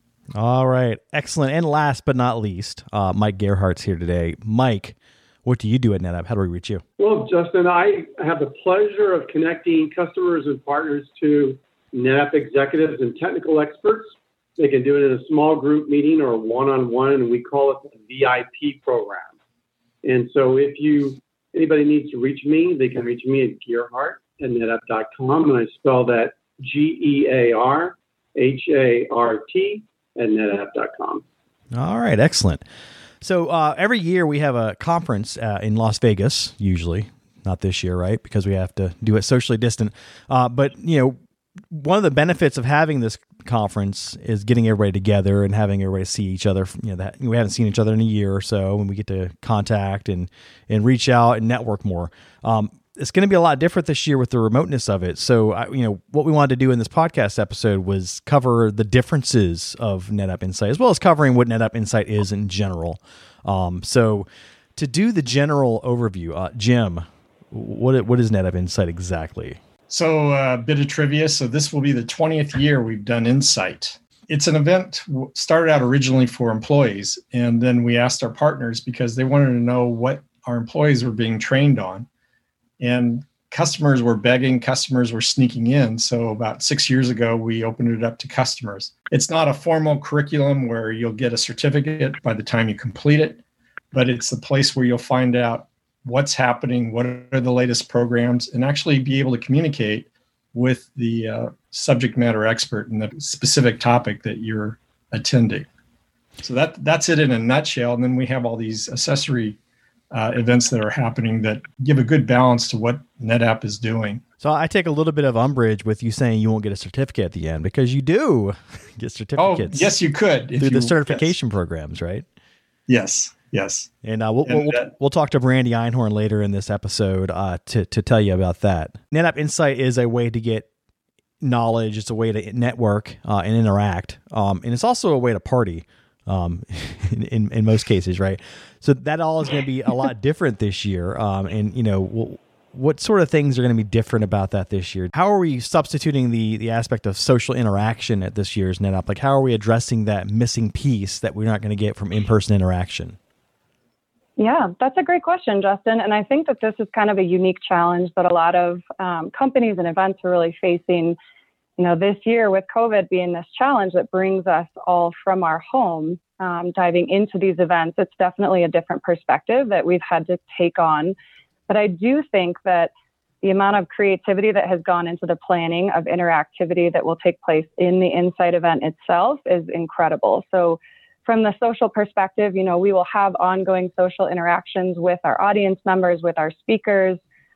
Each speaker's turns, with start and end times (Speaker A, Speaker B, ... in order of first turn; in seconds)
Speaker A: 0.3-6.8, 31.7-32.6, 33.2-41.2, 41.7-69.6, 114.4-119.9, 120.6-122.2, 124.0-130.7, 131.4-153.2
Speaker B: 7.0-19.3, 20.0-31.2
Speaker C: 69.9-82.1, 82.8-93.4, 93.9-105.7, 106.4-109.6, 110.1-114.2, 119.4-121.3, 122.9-123.9, 124.4-124.9
Speaker D: 154.4-161.2, 161.8-171.1, 171.7-172.9, 173.4-187.2